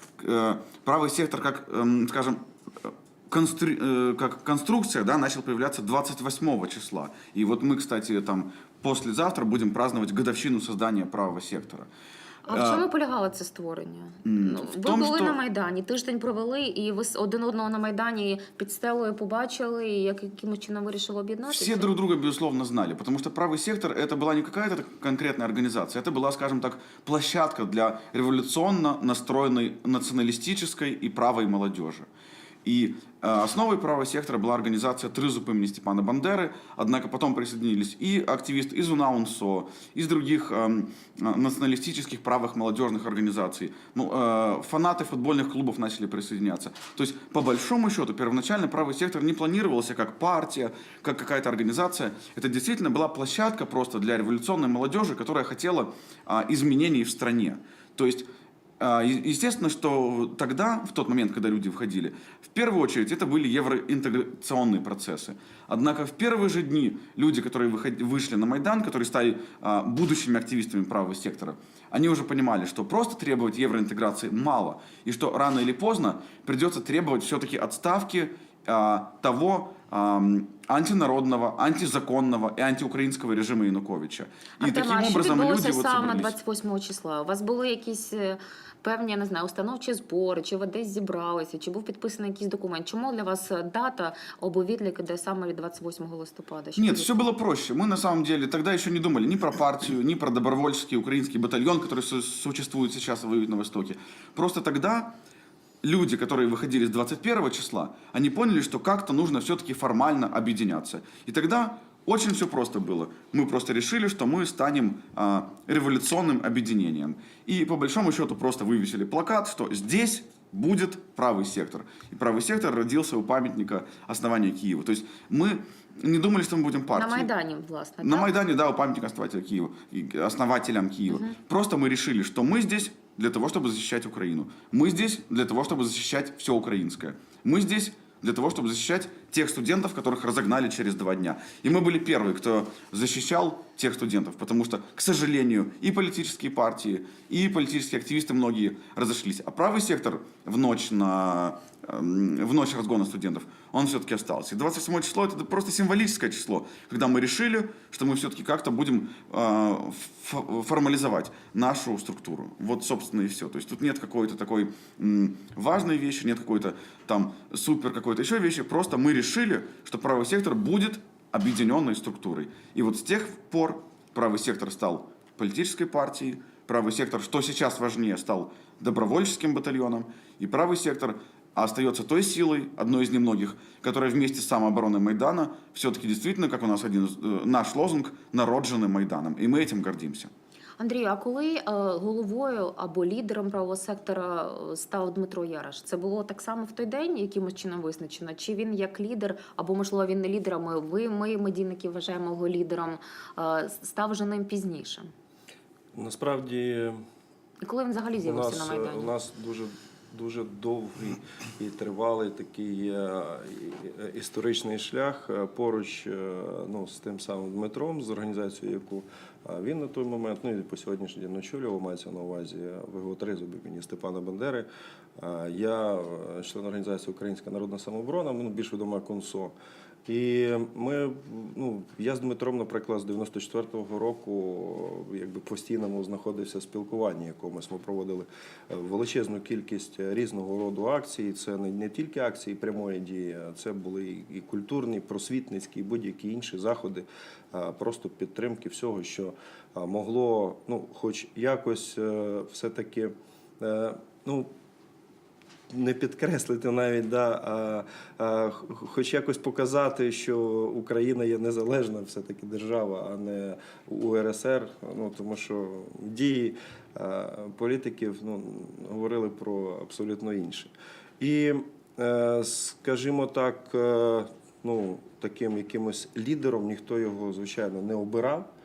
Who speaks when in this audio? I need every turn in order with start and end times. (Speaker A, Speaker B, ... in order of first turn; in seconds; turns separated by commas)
Speaker A: 0.2-11.9, Speaker B: 12.5-21.9, Speaker A: 12.5-12.8, Speaker A: 14.2-15.4, Speaker A: 21.5-32.1, Speaker A: 32.6-58.3, Speaker A: 58.8-86.3, Speaker B: 84.6-97.3, Speaker A: 96.8-105.1, Speaker A: 105.8-127.3, Speaker B: 126.9-128.3, Speaker A: 128.0-190.3, Speaker B: 131.1-131.4, Speaker B: 190.8-205.1, Speaker C: 205.9-207.0, Speaker B: 207.6-209.1, Speaker C: 208.2-229.6, Speaker C: 230.1-254.5, Speaker C: 255.7-278.5